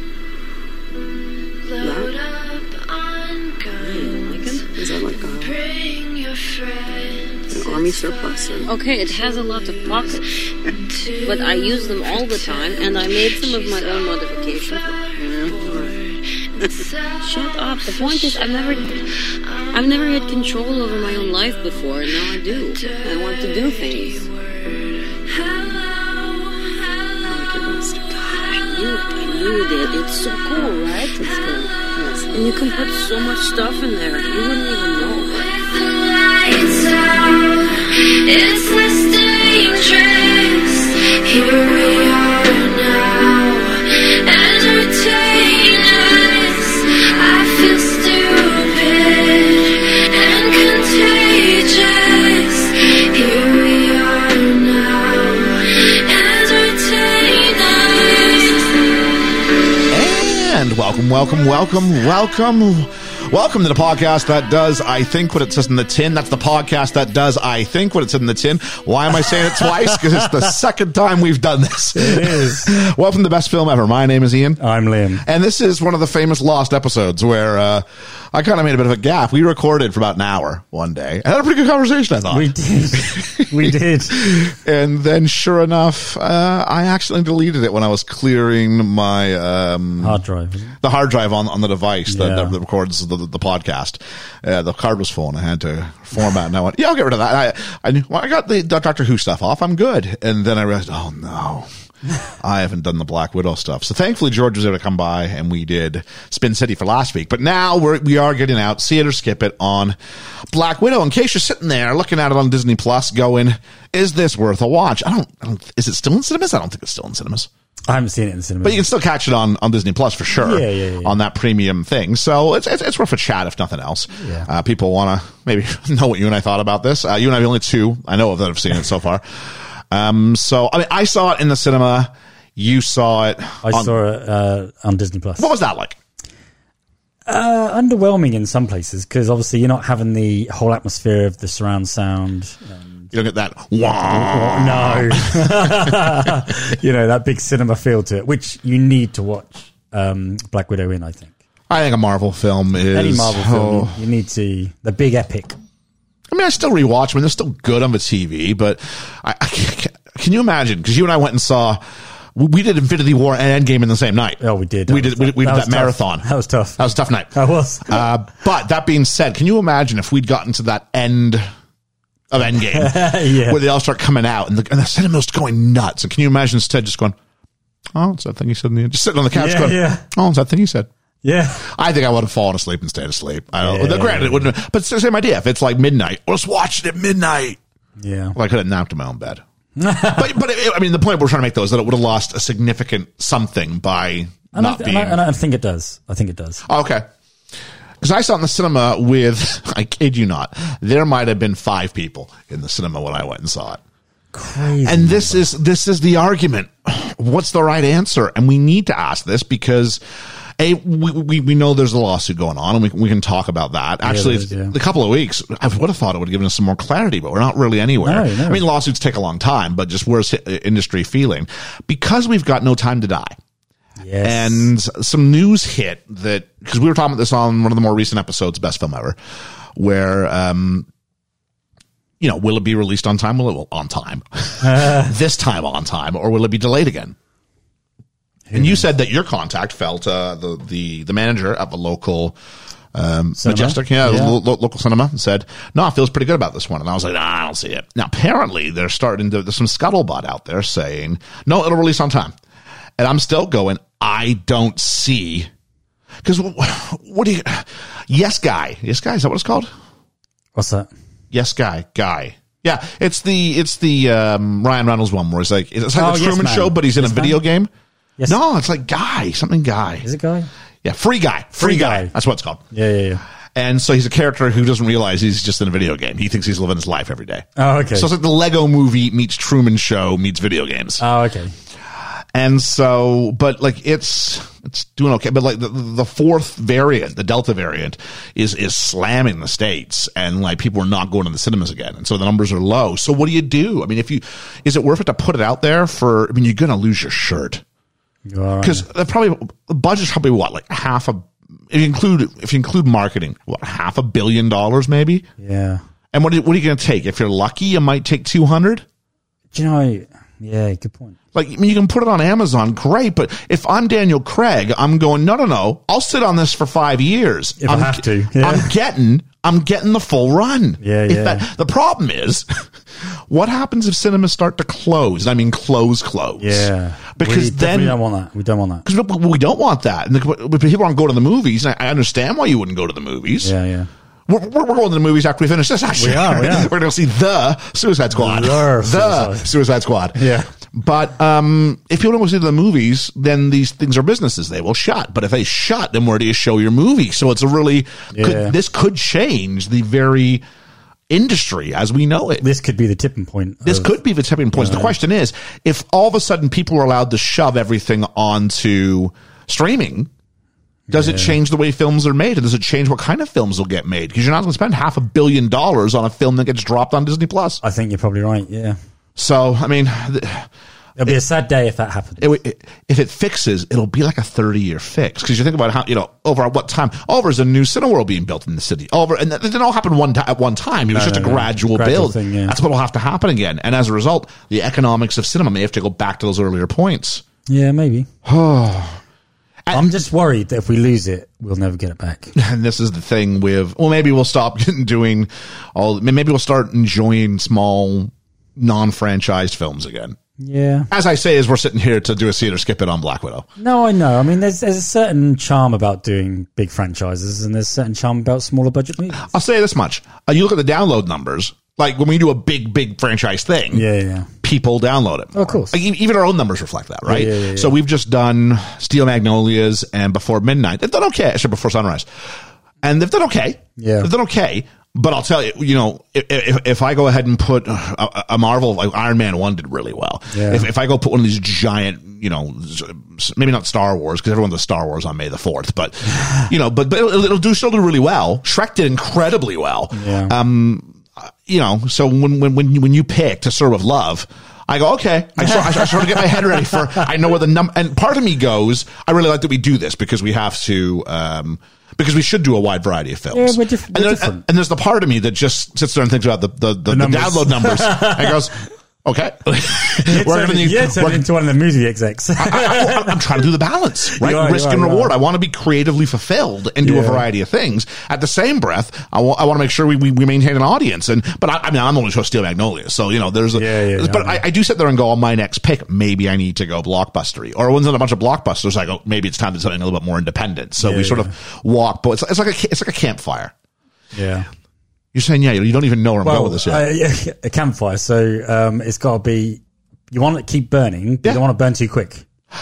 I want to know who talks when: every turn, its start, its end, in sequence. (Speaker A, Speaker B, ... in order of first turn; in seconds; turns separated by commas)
Speaker A: 1.7-4.1, Speaker B: 1.8-2.1, Speaker C: 3.8-4.7, Speaker B: 4.7-5.6, Speaker A: 5.4-8.0, Speaker B: 7.5-8.7, Speaker C: 8.6-10.3, Speaker A: 10.9-11.3, Speaker C: 11.2-15.8, Speaker A: 15.2-16.2, Speaker C: 17.2-19.0, Speaker C: 19.7-24.3, Speaker A: 22.8-26.4, Speaker B: 27.2-28.4, Speaker C: 28.4-31.3, Speaker B: 31.2-32.6, Speaker C: 32.3-35.4, Speaker A: 35.3-58.8, Speaker D: 59.9-74.6, Speaker E: 71.9-72.9, Speaker E: 74.6-75.2, Speaker D: 75.2-90.2, Speaker E: 82.3-84.3, Speaker E: 90.0-90.7, Speaker D: 90.8-101.7, Speaker E: 92.1-92.5, Speaker D: 102.4-110.0, Speaker D: 110.5-117.5, Speaker E: 117.9-118.8, Speaker D: 118.6-133.9, Speaker E: 120.4-121.2, Speaker E: 124.1-124.5, Speaker E: 133.6-135.5, Speaker D: 135.4-136.0, Speaker E: 137.3-143.1, Speaker D: 143.1-146.3, Speaker E: 144.1-151.3, Speaker D: 151.7-154.0, Speaker E: 152.9-155.6, Speaker D: 156.3-161.8, Speaker D: 162.3-166.2, Speaker E: 164.4-168.1, Speaker D: 166.8-171.4, Speaker D: 172.3-177.2, Speaker E: 172.6-173.6, Speaker D: 177.9-180.9, Speaker E: 179.3-180.1, Speaker E: 181.2-181.7, Speaker D: 181.6-187.6, Speaker E: 183.6-184.5, Speaker E: 188.0-188.3, Speaker D: 188.3-189.4, Speaker E: 189.8-190.3, Speaker D: 190.1-195.2, Speaker E: 194.5-196.6, Speaker D: 196.7-197.1, Speaker D: 198.0-203.8, Speaker E: 204.3-205.4, Speaker D: 204.8-210.0, Speaker D: 210.6-223.3, Speaker E: 214.0-214.7, Speaker E: 218.0-218.6, Speaker E: 224.0-224.7, Speaker D: 224.2-229.2, Speaker D: 229.8-230.9, Speaker D: 232.2-237.2, Speaker E: 234.6-235.1, Speaker E: 238.5-238.8, Speaker D: 238.5-242.4, Speaker D: 242.9-252.3, Speaker E: 243.4-244.4, Speaker D: 253.0-255.5, Speaker D: 256.2-259.7, Speaker E: 260.5-260.9, Speaker D: 261.3-267.7, Speaker E: 265.9-267.4, Speaker D: 268.3-270.1, Speaker E: 270.0-270.5, Speaker D: 270.8-272.6, Speaker E: 271.6-272.1, Speaker E: 272.7-273.2, Speaker D: 273.5-281.0, Speaker E: 277.6-278.1, Speaker E: 281.0-281.5, Speaker D: 282.3-297.6, Speaker E: 298.3-298.9, Speaker D: 298.6-305.3, Speaker E: 305.4-305.8, Speaker D: 306.1-308.8, Speaker E: 309.5-311.2, Speaker D: 311.3-328.0, Speaker E: 317.6-318.7, Speaker E: 320.8-321.4, Speaker E: 326.4-328.9, Speaker D: 328.8-333.5, Speaker E: 333.4-333.9, Speaker D: 334.3-350.4, Speaker E: 336.0-336.7, Speaker E: 338.1-339.5, Speaker E: 340.1-340.5, Speaker E: 348.1-348.5, Speaker D: 351.1-352.4, Speaker E: 352.4-353.9, Speaker D: 353.6-360.1, Speaker E: 354.5-354.9, Speaker E: 360.9-361.4, Speaker D: 360.9-367.6, Speaker E: 367.6-368.8, Speaker D: 369.1-370.5, Speaker E: 371.0-372.3, Speaker D: 372.2-387.2, Speaker E: 380.9-382.6, Speaker E: 387.5-388.1, Speaker D: 388.2-389.0, Speaker E: 389.7-392.3, Speaker D: 392.3-400.2, Speaker E: 400.4-400.9, Speaker D: 400.9-403.5, Speaker E: 403.6-409.3, Speaker D: 409.2-413.8, Speaker E: 413.7-414.3, Speaker D: 414.4-458.5, Speaker E: 415.3-415.8, Speaker E: 417.1-417.7, Speaker E: 423.8-424.1, Speaker E: 430.3-430.7, Speaker E: 436.2-436.5, Speaker E: 439.9-440.3, Speaker E: 445.4-447.0, Speaker E: 453.3-454.4, Speaker E: 456.9-458.4, Speaker D: 459.0-461.2, Speaker E: 460.0-463.4, Speaker D: 462.4-483.5, Speaker E: 464.0-465.1, Speaker E: 466.8-467.2, Speaker E: 473.5-474.4, Speaker E: 480.8-481.3, Speaker E: 484.1-484.5, Speaker D: 485.1-486.8, Speaker E: 486.2-492.2